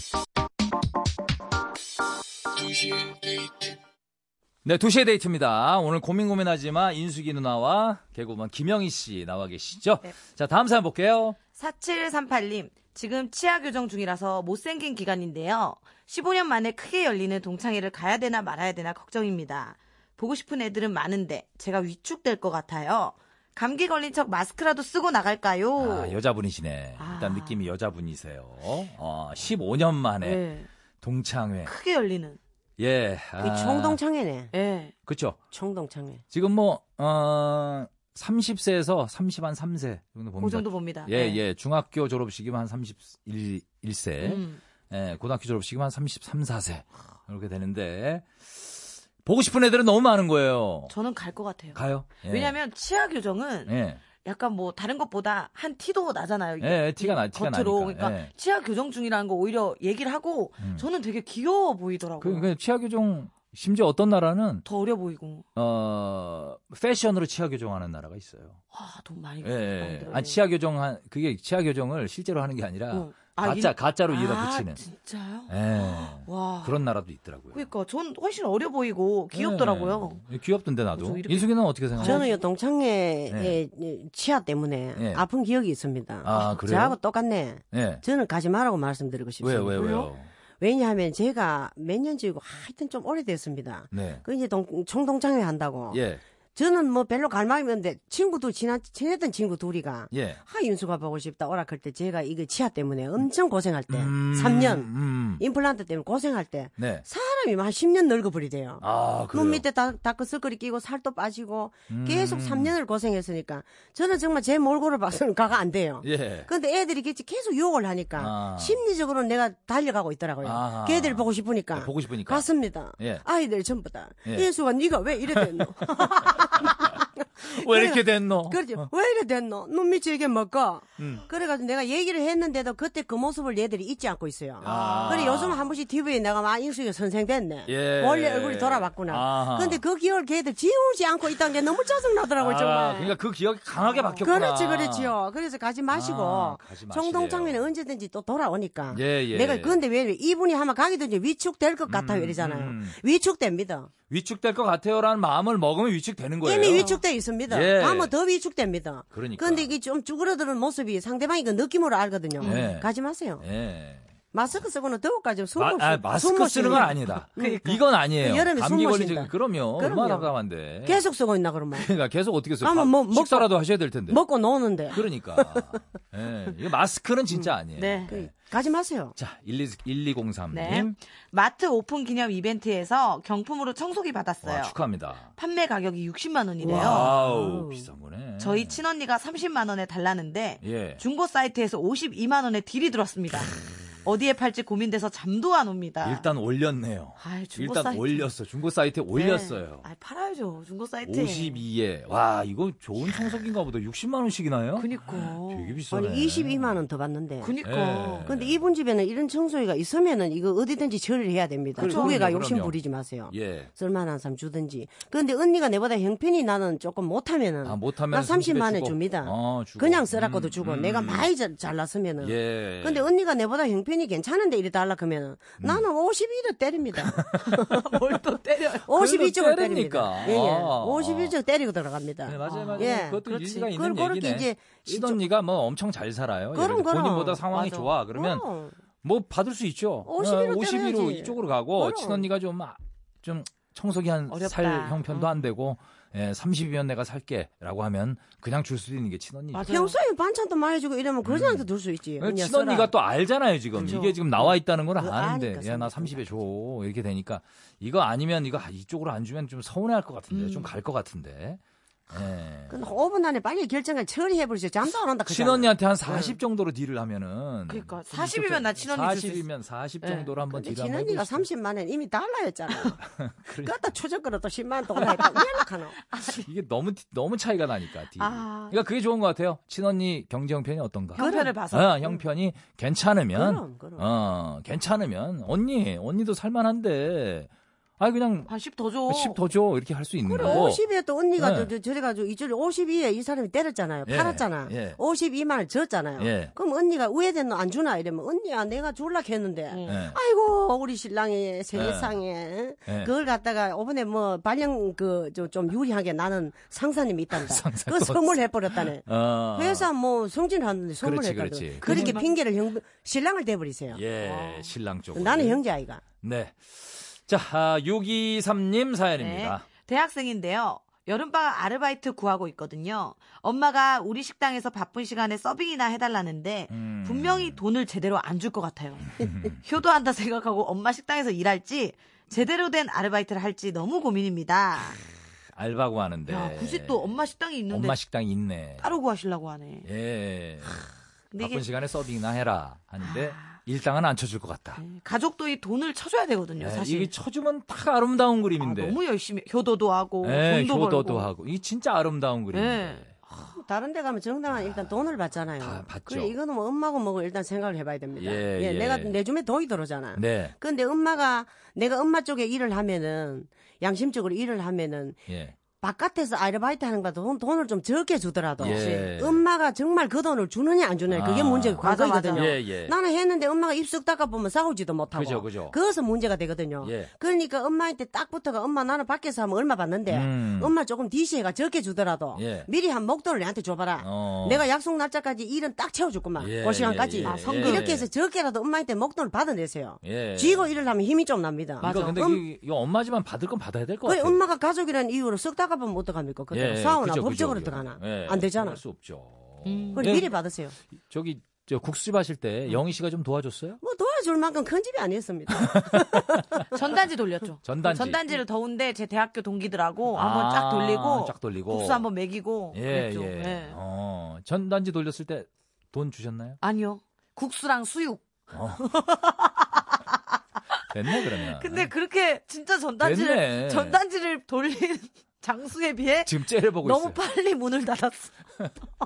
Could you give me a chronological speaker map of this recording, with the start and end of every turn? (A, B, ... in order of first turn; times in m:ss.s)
0:04.6-0:11.4 A
0:11.5-0:26.2 B
0:25.8-0:30.4 A
0:27.0-0:27.6 B
0:30.2-0:30.7 B
0:31.0-0:31.7 A
0:31.6-0:32.4 B
0:32.8-0:34.0 A
0:33.4-0:34.5 C
0:34.5-0:34.9 B
0:35.0-0:35.4 A
0:35.5-0:36.2 C
0:36.3-0:50.9 A
0:40.4-0:41.4 B
0:44.2-0:44.6 B
0:50.9-0:53.7 B
0:51.7-0:52.6 A
0:53.7-0:54.0 A
0:54.2-1:02.5 B
0:56.6-0:58.3 A
1:02.2-1:04.6 A
1:04.6-1:05.4 B
1:05.6-1:08.6 A
1:08.7-1:10.4 B
1:09.4-1:14.8 A
1:12.9-1:16.8 B
1:15.5-1:17.6 A
1:17.5-1:20.2 B
1:19.3-1:22.2 A
1:21.0-1:22.3 B
1:22.0-1:30.0 C
1:23.3-1:23.6 A
1:25.0-1:25.2 A
1:26.2-1:27.0 A
1:27.7-1:28.0 A
1:29.4-1:30.3 A
1:29.8-1:30.1 B
1:30.6-1:36.0 C
1:33.9-1:34.2 A
1:35.9-1:36.2 A
1:36.6-2:23.1 C
1:40.1-1:40.4 A
1:43.9-1:45.4 A
1:46.8-1:47.0 A
1:48.8-1:49.6 A
1:51.9-1:52.7 A
1:56.0-1:56.5 A
1:58.2-1:58.8 A
2:00.4-2:03.2 A
2:05.3-2:06.8 A
2:07.4-2:08.9 A
2:11.0-2:11.2 A
2:14.6-2:15.7 A
2:14.6-2:15.4 B
2:17.7-2:19.8 A
2:22.4-2:25.1 A
2:23.8-2:24.2 B
2:24.2-2:33.9 C
2:25.9-2:27.7 A
2:28.9-2:29.8 A
2:31.9-2:33.0 A
2:34.1-2:36.9 A
2:36.4-2:43.4 C
2:36.7-2:37.0 B
2:37.5-2:38.1 A
2:39.1-2:39.7 A
2:42.4-2:42.7 B
2:42.4-2:42.9 A
2:43.4-2:44.0 A
2:44.3-2:50.3 C
2:45.6-2:51.0 A
2:50.8-2:51.9 C
2:51.7-2:54.2 A
2:52.6-2:53.5 C
2:54.1-2:55.7 C
2:54.9-2:58.3 A
2:57.8-2:58.1 B
2:58.1-2:59.1 C
2:59.2-3:00.9 A
3:00.5-3:04.7 B
3:04.4-3:05.3 A
3:05.4-3:07.1 B
3:06.6-3:07.9 C
3:06.7-3:08.8 A
3:08.4-3:16.3 B
3:10.6-3:11.0 A
3:16.0-3:19.8 A
3:17.2-3:18.3 B
3:19.1-3:21.6 B
3:21.0-3:26.8 A
3:24.8-3:25.8 B
3:25.9-3:27.5 C
3:27.4-3:28.3 B
3:27.6-3:28.6 A
3:28.2-3:47.8 C
3:31.8-3:32.8 A
3:31.8-3:32.2 B
3:33.3-3:33.7 A
3:37.6-3:41.3 A
3:42.2-3:43.1 A
3:45.6-3:45.8 A
3:46.9-3:47.6 A
3:47.4-3:48.9 B
3:48.8-3:55.2 C
3:48.9-3:51.3 A
3:52.2-3:58.4 A
3:52.4-3:53.0 B
3:56.5-3:57.4 C
3:57.5-3:57.9 B
3:58.1-3:58.8 C
3:59.0-4:09.8 A
4:00.0-4:02.3 C
4:04.3-4:05.3 B
4:09.5-4:10.0 B
4:09.7-4:12.9 C
4:11.2-4:11.7 A
4:12.2-4:22.8 A
4:13.8-4:14.2 B
4:15.0-4:16.3 C
4:20.3-4:20.7 B
4:22.7-4:26.4 C
4:25.3-4:31.5 A
4:27.7-4:29.4 B
4:30.0-4:30.3 B
4:30.5-4:33.0 C
4:33.2-4:33.9 A
4:33.6-4:36.0 C
4:36.1-4:36.5 B
4:36.4-4:48.5 A
4:38.2-4:38.7 B
4:41.2-4:42.2 B
4:41.2-4:41.5 C
4:43.3-4:44.0 C
4:48.5-4:49.4 B
4:49.1-4:50.8 A
4:50.2-5:14.0 C
4:50.4-4:50.7 B
4:51.4-4:51.7 A
4:54.0-4:55.0 A
4:56.2-4:56.5 A
4:59.7-5:00.0 B
4:59.8-5:00.2 A
5:01.7-5:02.1 A
5:07.3-5:09.9 A
5:11.0-5:12.2 A
5:11.8-5:12.3 B
5:13.9-5:15.6 A
5:14.2-5:14.7 B
5:15.1-5:16.0 C
5:16.2-5:19.6 A
5:19.2-5:35.0 B
5:26.7-5:27.6 A
5:29.1-5:29.6 A
5:35.5-5:37.1 A
5:36.3-5:38.0 B
5:37.7-5:38.9 A
5:38.8-5:39.8 B
5:39.8-5:40.8 A
5:41.3-5:41.6 B
5:41.4-5:44.8 A
5:43.0-5:43.6 B
5:44.8-5:47.1 B
5:46.6-5:49.0 A
5:48.6-5:51.3 B
5:50.2-5:53.1 A
5:52.5-5:53.5 B
5:53.3-6:05.2 C
5:55.6-5:56.3 A
5:58.2-5:59.1 A
6:00.1-6:00.5 A
6:05.3-6:05.6 A
6:05.8-6:32.4 C
6:08.6-6:09.4 A
6:08.6-6:09.1 B
6:11.1-6:12.9 A
6:11.8-6:12.5 B
6:15.1-6:15.7 A
6:16.8-6:17.1 A
6:20.1-6:20.7 A
6:22.3-6:22.7 A
6:24.0-6:24.6 A
6:26.4-6:28.0 A
6:27.2-6:27.9 B
6:30.0-6:30.7 A
6:31.8-6:32.4 B
6:31.8-6:34.4 A
6:34.0-6:38.8 C
6:36.5-6:40.3 A
6:39.6-6:40.1 B
6:39.9-6:40.7 C
6:41.1-6:43.8 A
6:43.8-6:46.7 C
6:45.5-6:46.7 A
6:46.7-6:53.8 B
6:47.6-6:48.2 A
6:50.1-6:52.0 A
6:52.7-6:56.6 A
6:56.6-6:58.2 B
6:58.5-6:59.0 A
6:58.8-7:00.2 B
7:00.7-7:08.3 B
7:00.9-7:01.9 A
7:03.0-7:04.0 A
7:06.2-7:07.2 A